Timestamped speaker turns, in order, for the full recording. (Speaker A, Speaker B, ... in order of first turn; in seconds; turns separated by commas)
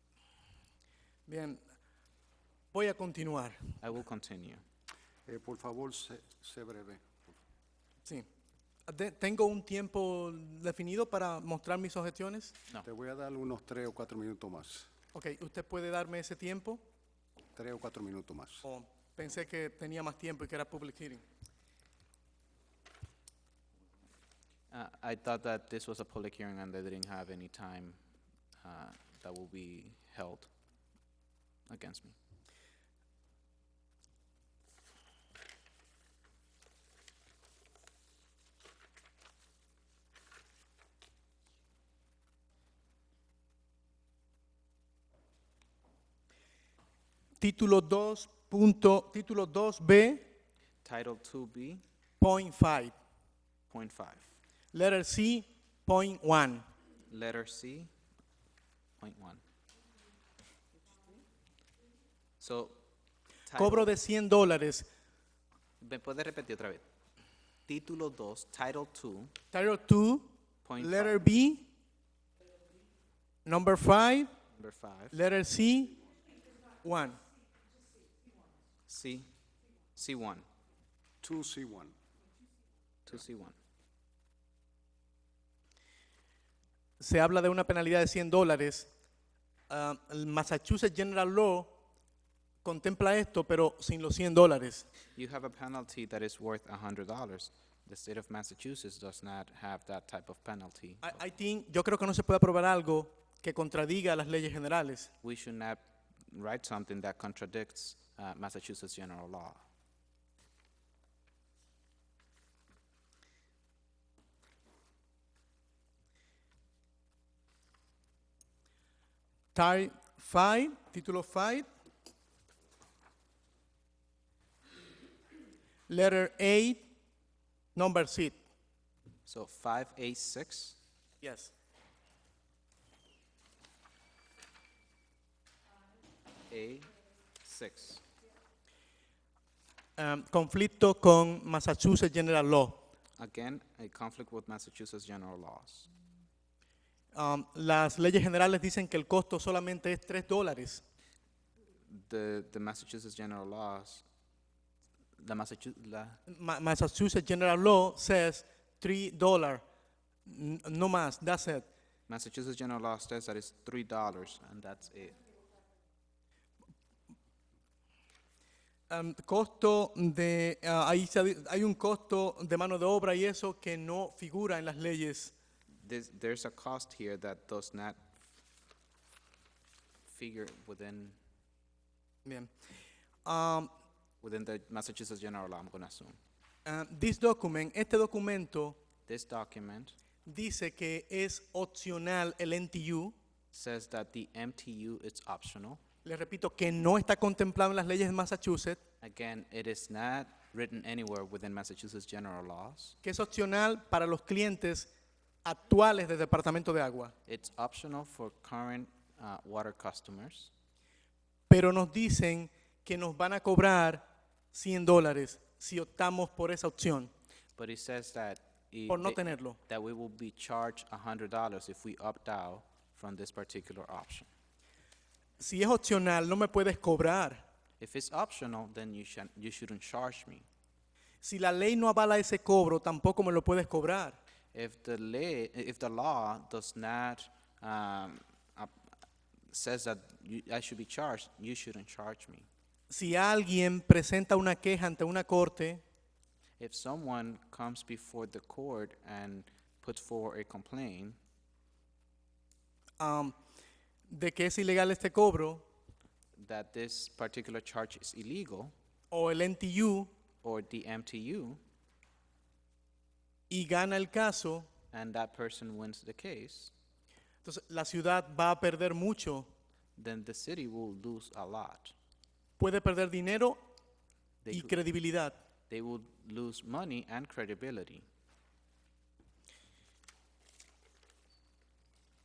Speaker A: 1.3-1.6, Speaker A: 2.7-3.7, Speaker B: 3.8-4.6, Speaker C: 5.3-7.3, Speaker A: 8.9-12.6, Speaker C: 12.8-14.9, Speaker A: 15.1-16.8, Speaker C: 17.6-18.6, Speaker A: 18.6-21.2, Speaker B: 24.7-28.0, Speaker B: 28.6-30.5, Speaker B: 31.7-32.1, Speaker A: 47.4-50.2, Speaker B: 50.8-51.8, Speaker A: 52.2-53.0, Speaker B: 53.7-54.2, Speaker A: 54.7-56.6, Speaker B: 57.1-57.9, Speaker B: 59.0-59.4, Speaker B: 62.4-62.8, Speaker B: 63.5-64.0, Speaker A: 63.6-64.9, Speaker B: 65.8-66.8, Speaker B: 67.7-69.3, Speaker A: 69.5-70.3, Speaker B: 70.7-71.2, Speaker A: 70.8-71.7, Speaker A: 73.5-74.3, Speaker B: 74.5-75.1, Speaker A: 75.1-76.0, Speaker A: 76.8-77.2, Speaker B: 78.9-79.3, Speaker B: 80.0-80.5, Speaker C: 81.2-81.9, Speaker B: 83.1-83.5, Speaker A: 87.0-88.9, Speaker A: 89.7-91.7, Speaker A: 92.6-94.9, Speaker B: 95.2-101.2, Speaker A: 101.0-105.1, Speaker B: 105.2-109.6, Speaker A: 119.5-121.7, Speaker A: 125.9-126.9, Speaker A: 127.8-128.4, Speaker B: 129.3-130.8, Speaker A: 131.2-131.5, Speaker B: 136.5-136.9, Speaker B: 137.4-138.0, Speaker A: 140.0-142.8, Speaker B: 143.2-145.9, Speaker A: 147.1-150.8, Speaker B: 151.9-154.0, Speaker B: 155.2-156.2, Speaker A: 156.3-159.6, Speaker A: 160.3-161.7, Speaker B: 162.1-165.2, Speaker A: 168.9-175.3, Speaker B: 175.8-178.1, Speaker B: 180.1-181.2, Speaker A: 182.2-182.5, Speaker A: 183.2-183.7, Speaker B: 184.2-186.2, Speaker A: 186.7-188.8, Speaker B: 189.1-190.0, Speaker A: 190.3-193.1, Speaker B: 193.5-195.8, Speaker A: 196.1-198.8, Speaker B: 199.0-203.0, Speaker A: 203.0-204.9, Speaker A: 205.4-207.1, Speaker B: 207.3-210.5, Speaker A: 211.5-217.1, Speaker B: 217.6-224.3, Speaker A: 218.9-219.6, Speaker A: 225.4-227.4, Speaker B: 227.8-230.5, Speaker A: 231.2-234.2, Speaker B: 234.5-238.7, Speaker B: 239.5-242.5, Speaker A: 242.9-245.8, Speaker B: 246.6-251.2, Speaker A: 253.0-253.3, Speaker A: 254.1-255.7, Speaker B: 256.4-258.7, Speaker A: 259.1-260.1, Speaker B: 260.4-261.6, Speaker A: 263.5-264.7, Speaker B: 264.9-266.7, Speaker A: 267.4-269.5, Speaker B: 270.0-271.9, Speaker A: 272.6-273.6, Speaker B: 274.4-274.8, Speaker A: 274.5-275.4, Speaker B: 275.7-278.1